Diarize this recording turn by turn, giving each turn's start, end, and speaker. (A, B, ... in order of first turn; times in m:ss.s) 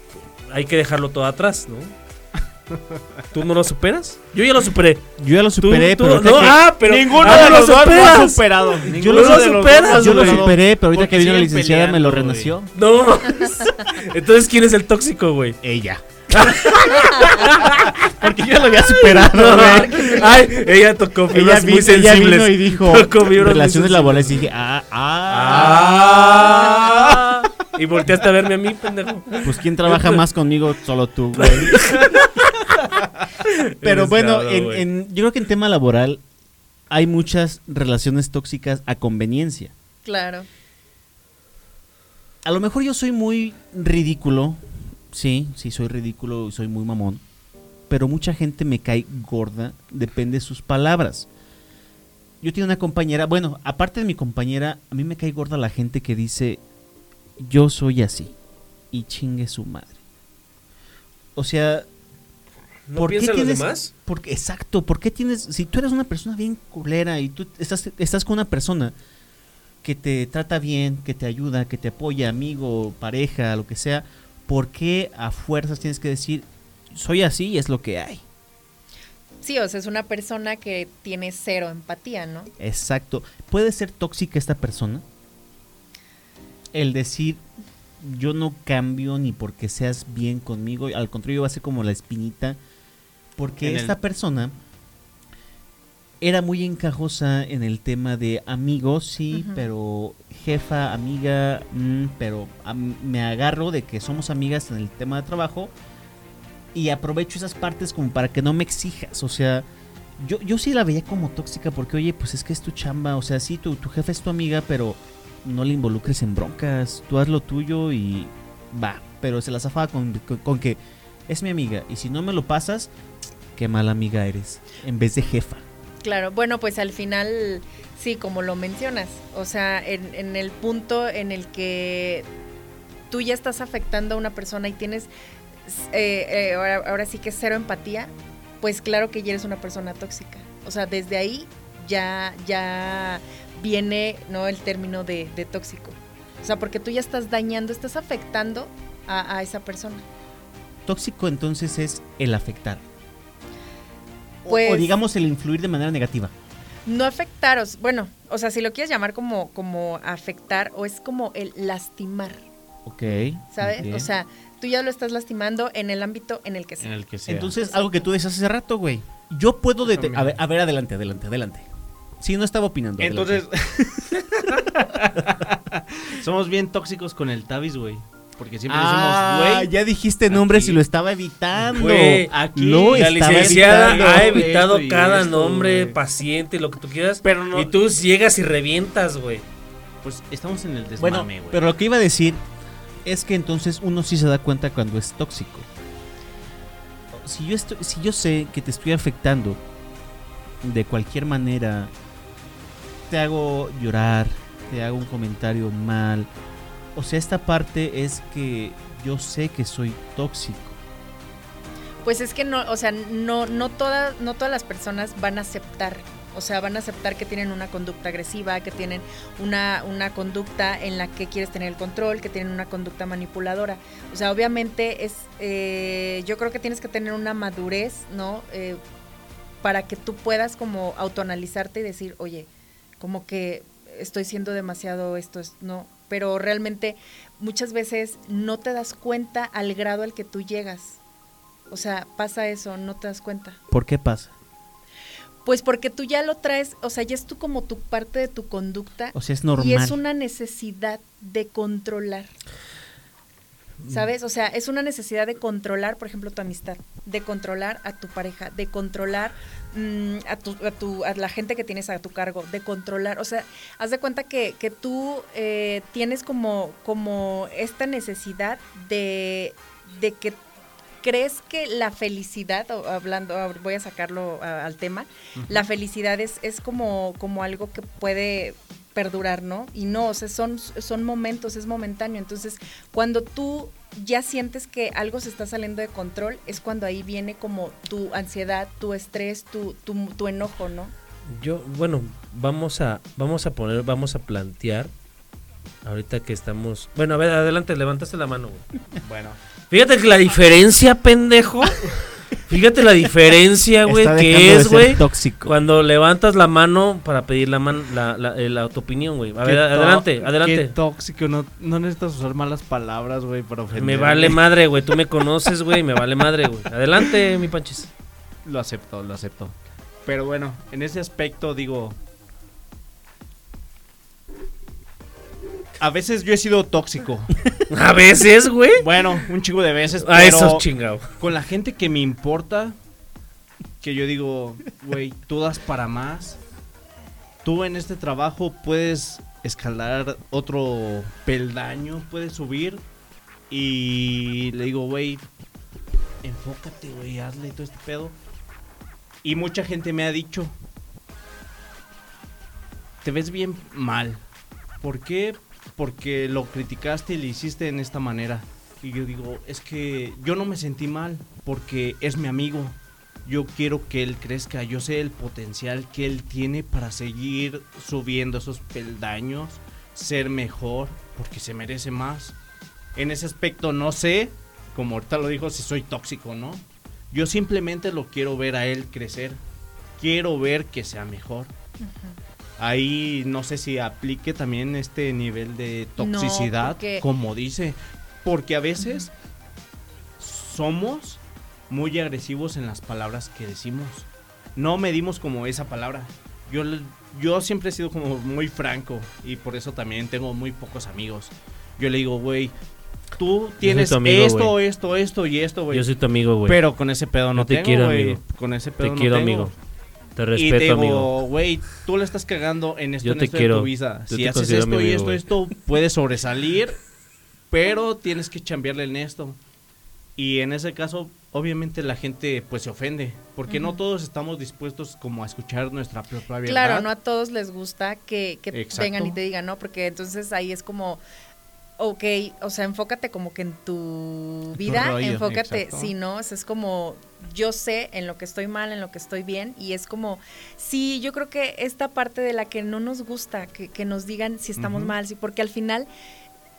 0:00.5-0:01.9 A
0:03.3-0:05.0 A
0:05.2-0:08.2 B
0:05.6-0:10.5 A
0:06.8-0:12.5 C
0:08.9-0:12.7 B
0:12.8-0:15.6 A
0:15.6-0:16.8 B
0:16.3-0:18.0 A
0:17.3-0:20.5 B
0:19.1-0:24.5 A
0:19.6-0:20.4 D
0:21.3-0:26.4 B
0:25.3-0:30.2 A
0:25.5-0:27.2 C
0:29.4-0:32.0 B
0:31.4-0:32.5 A
0:33.6-0:34.8 A
0:33.8-0:36.2 B
0:36.9-0:39.7 B
0:40.0-0:40.5 D
0:42.4-0:47.2 B
0:47.9-0:51.3 B
0:52.4-0:56.6 B
0:57.4-0:58.3 B
0:58.9-0:59.9 B
1:01.4-1:01.9 B
1:02.9-1:03.9 A
1:03.0-1:08.9 B
1:09.8-1:18.2 B
1:19.4-1:22.5 D
1:22.6-1:25.0 B
1:26.7-1:27.4 B
1:28.0-1:32.6 B
1:33.4-1:34.5 B
1:33.6-1:34.0 C
1:36.2-1:45.7 B
1:39.3-1:39.7 D
1:46.7-1:49.7 B
1:50.2-2:02.9 B
2:03.6-2:05.6 B
2:06.0-2:12.3 D
2:13.1-2:15.1 D
2:15.7-2:30.0 D
2:30.9-2:32.8 B
2:34.4-2:36.3 B
2:34.5-2:34.9 D
2:36.9-2:42.4 D
2:42.9-2:44.1 B
2:43.5-2:46.9 D
2:46.8-2:47.6 C
2:47.3-2:51.7 B
2:49.9-2:50.4 C
2:52.2-2:54.1 B
2:53.0-2:59.7 C
2:58.7-3:04.5 B
3:00.3-3:00.8 C
3:01.6-3:06.0 C
3:01.8-3:02.3 A
3:02.9-3:09.4 A
3:07.2-3:07.7 C
3:10.0-3:11.7 C
3:11.0-3:12.4 B
3:13.0-3:15.7 B
3:17.2-3:19.6 B
3:20.6-3:21.9 B
3:23.1-3:26.3 B
3:27.0-3:30.8 B
3:32.0-3:48.8 D
3:49.6-3:52.5 D
3:53.0-4:01.0 D
4:01.7-4:03.6 D
4:03.7-4:04.3 B
4:05.4-4:12.3 D
4:09.1-4:10.0 B
4:13.9-4:30.4 D
4:31.0-4:50.9 D
4:35.4-4:35.6 C
4:51.3-4:54.9 A
4:55.8-4:58.7 A
4:59.0-4:59.4 C
4:59.7-5:10.7 A
5:03.9-5:05.6 B
5:09.4-5:14.4 C
5:13.7-5:17.9 A
5:18.4-5:22.0 C
5:25.8-5:27.4 C
5:27.7-5:29.2 A
5:28.8-5:30.7 C
5:30.0-5:31.1 A
5:31.2-5:32.8 C
5:33.8-5:36.4 C
5:37.4-5:42.8 C
5:43.5-5:45.3 C
5:46.2-5:48.2 C
5:49.2-5:50.6 C
5:53.0-5:54.2 C
5:54.8-6:12.4 C
6:13.0-6:19.4 C
6:20.0-6:21.5 C
6:21.8-6:22.2 D
6:22.6-6:29.1 C
6:26.0-6:27.1 D
6:30.2-6:42.6 C
6:43.2-6:45.9 C
6:43.6-6:44.6 A
6:45.7-6:46.6 A
6:46.5-6:49.5 C
6:47.4-6:48.2 A
6:48.8-6:49.5 A
6:50.2-6:51.1 A
6:50.4-6:56.8 C
6:53.0-6:55.2 A
6:57.5-6:59.4 C
7:00.2-7:06.9 C
7:03.5-7:03.8 D
7:06.5-7:11.0 D
7:08.5-7:09.2 C
7:11.8-7:25.9 D
7:14.6-7:15.2 B
7:15.2-7:15.9 C
7:24.6-7:24.9 C